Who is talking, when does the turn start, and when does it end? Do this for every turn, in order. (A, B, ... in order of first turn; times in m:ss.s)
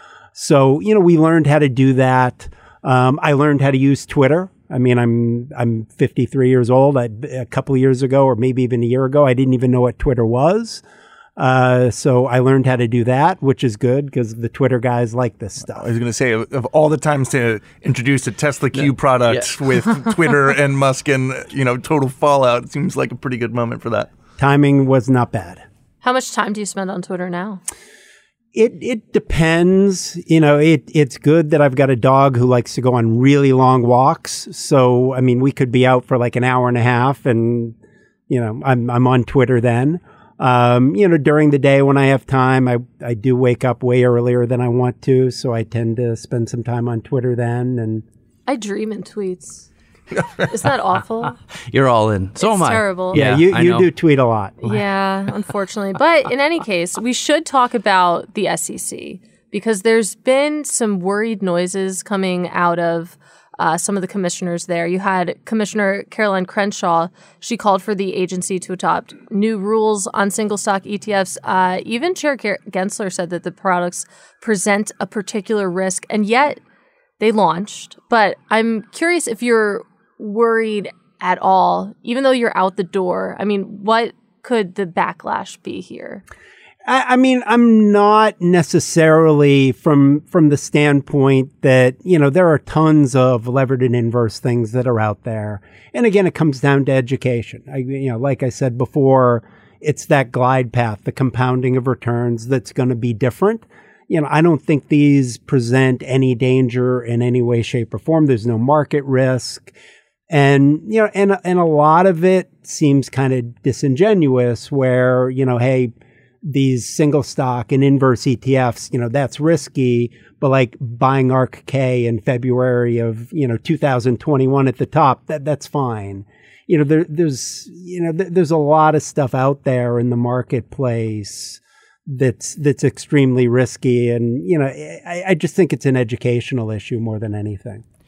0:00.3-0:10.8 A
0:11.4-0:15.9 A
0:15.7-0:24.1 B
0:18.8-0:19.6 C
0:24.4-0:25.6 A
0:26.0-0:27.6 D
0:28.5-0:37.8 A
0:38.3-0:48.0 A
0:48.5-0:49.6 D
0:50.5-0:51.4 D
0:51.7-0:53.9 C
0:52.4-0:53.2 D
0:53.1-0:54.6 A
0:54.6-1:16.6 D
1:17.2-1:26.2 D
1:26.9-1:49.7 A
1:50.3-1:55.9 A
1:56.4-2:17.8 A